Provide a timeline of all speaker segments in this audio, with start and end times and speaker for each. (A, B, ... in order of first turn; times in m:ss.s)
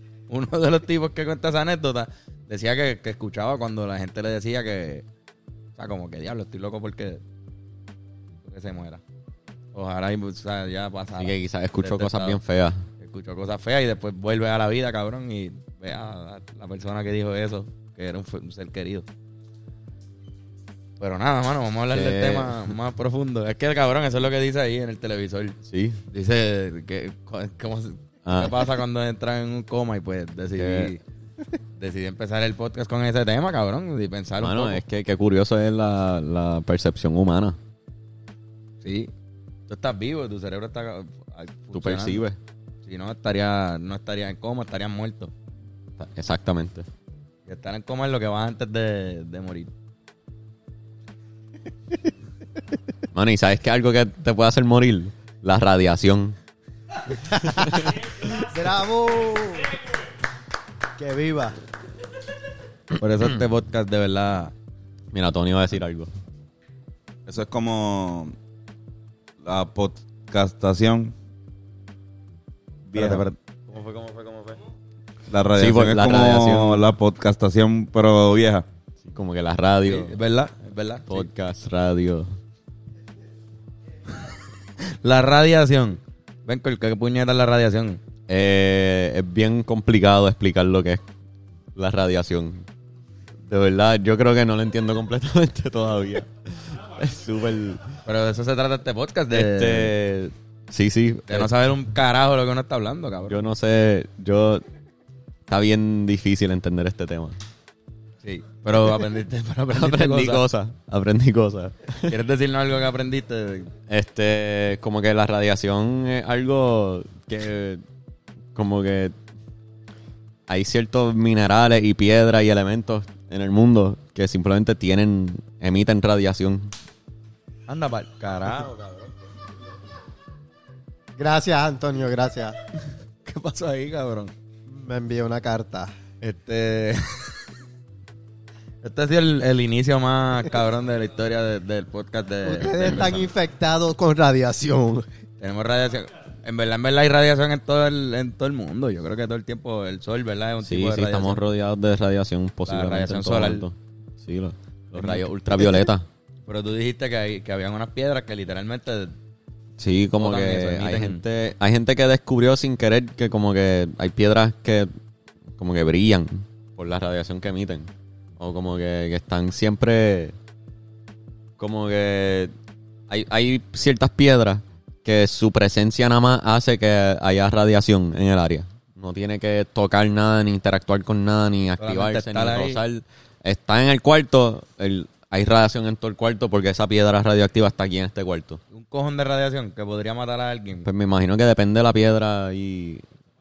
0:00.3-0:05.0 A
0:05.8-0:07.2 A
0:08.4-0:09.0 A
0:09.7-0:12.4 A
0:11.2-0:12.9 B
0:13.0-0:19.0 A
0:21.0-0:25.6 A
0:21.9-0:22.7 B
0:25.6-0:26.0 B
0:26.1-0:31.0 A
0:28.2-0:28.7 B
0:30.6-0:30.9 B
0:31.8-0:34.8 A
0:34.4-0:37.6 B
0:38.8-0:39.1 A
0:39.7-0:42.2 A
0:41.7-0:42.4 B
0:42.8-0:45.3 A
0:46.0-0:46.9 B
0:47.5-0:49.7 A
0:53.1-0:56.4 B
0:57.2-0:59.7 C
0:57.6-0:57.9 B
1:01.0-1:01.6 C
1:03.0-1:04.5 A
1:05.1-1:06.1 B
1:07.3-1:08.3 D
1:09.4-1:11.1 D
1:12.9-1:13.2 D
1:12.9-1:13.3 A
1:13.0-1:14.6 B
1:15.3-1:18.6 D
1:15.6-1:16.9 B
1:19.0-1:20.2 B
1:19.8-1:21.3 A
1:21.1-1:22.4 B
1:24.8-1:28.0 A
1:28.3-1:31.0 B
1:31.8-1:32.7 B
1:33.4-1:38.0 B
1:38.0-1:39.9 A
1:39.3-1:41.5 B
1:41.3-1:43.4 A
1:43.3-1:44.6 B
1:45.5-1:47.4 B
1:48.2-1:50.4 A
1:49.7-1:52.2 B
1:52.1-1:53.7 A
1:53.9-1:57.8 B
1:58.5-1:59.1 B
2:00.5-2:06.7 B
2:07.7-2:09.1 A
2:11.2-2:12.6 C
2:13.2-2:14.3 A
2:14.7-2:15.9 C
2:16.2-2:17.4 A
2:18.8-2:23.3 A
2:22.4-2:25.1 C
2:25.4-2:31.4 A
2:30.6-2:36.1 B
2:32.7-2:33.7 A
2:34.9-2:35.3 A
2:36.5-2:39.1 A
2:39.8-2:44.9 B
2:40.2-2:41.2 A
2:45.6-2:50.4 B
2:51.6-2:52.5 B
2:53.1-3:08.6 B
3:01.8-3:02.8 A
3:08.7-3:10.9 A
3:10.8-3:13.0 B